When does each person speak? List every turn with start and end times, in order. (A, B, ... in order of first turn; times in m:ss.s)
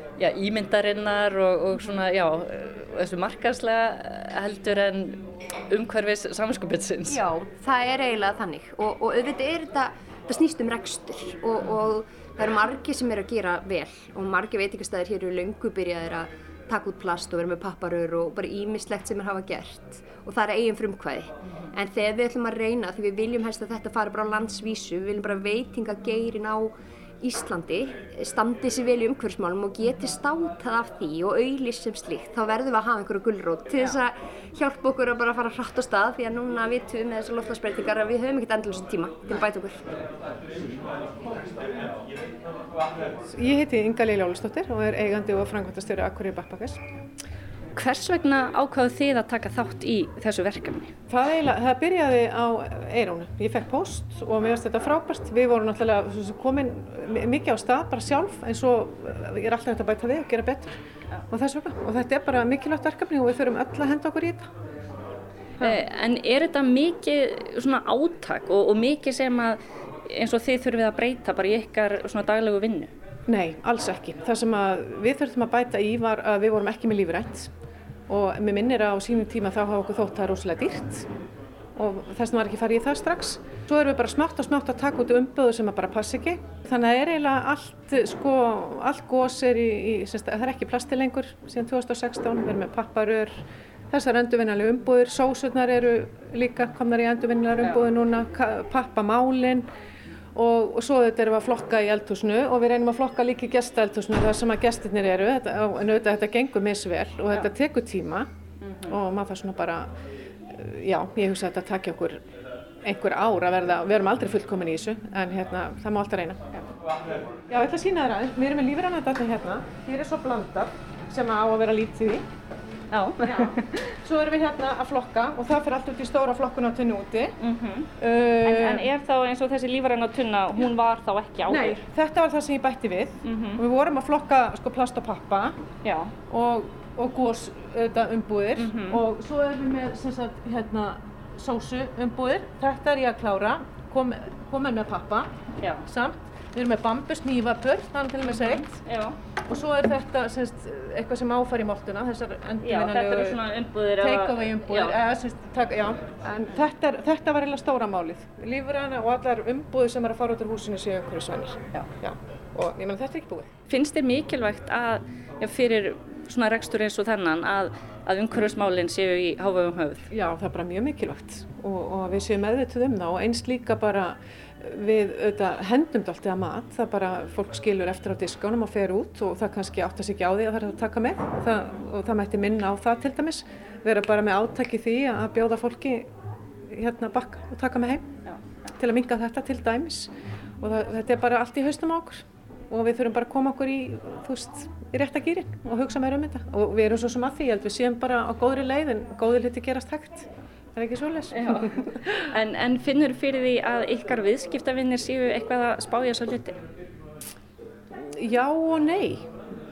0:00.2-0:07.2 A
0:07.1-0:39.9 B
0:43.3-0:46.8 C
0:47.8-0:50.9 A
0:51.1-1:00.8 C
1:01.3-1:04.5 C
1:05.6-1:12.9 A
1:13.3-1:17.5 C
1:18.1-1:21.1 C
1:21.8-1:39.7 C
1:40.4-1:48.3 C
1:48.6-1:48.9 A
1:48.9-1:49.9 C
1:50.5-1:52.2 C
1:52.8-1:56.4 C
1:57.5-2:02.3 C
2:02.9-2:03.7 A
2:03.2-2:07.4 C
2:07.4-2:07.9 A
2:08.0-2:08.9 C
2:08.4-2:11.8 A
2:11.5-2:15.6 C
2:13.2-2:13.6 A
2:15.8-2:16.1 A
2:16.3-2:25.3 C
2:18.6-2:19.0 A
2:25.8-2:28.8 C
2:28.2-2:29.2 A
2:29.5-2:43.5 C
2:32.6-2:35.0 A
2:43.7-2:50.1 A
2:50.1-3:06.1 C
3:06.7-3:08.1 C
3:08.8-3:22.3 C
3:21.3-3:21.8 A
3:22.3-3:26.6 A
3:28.0-3:29.3 C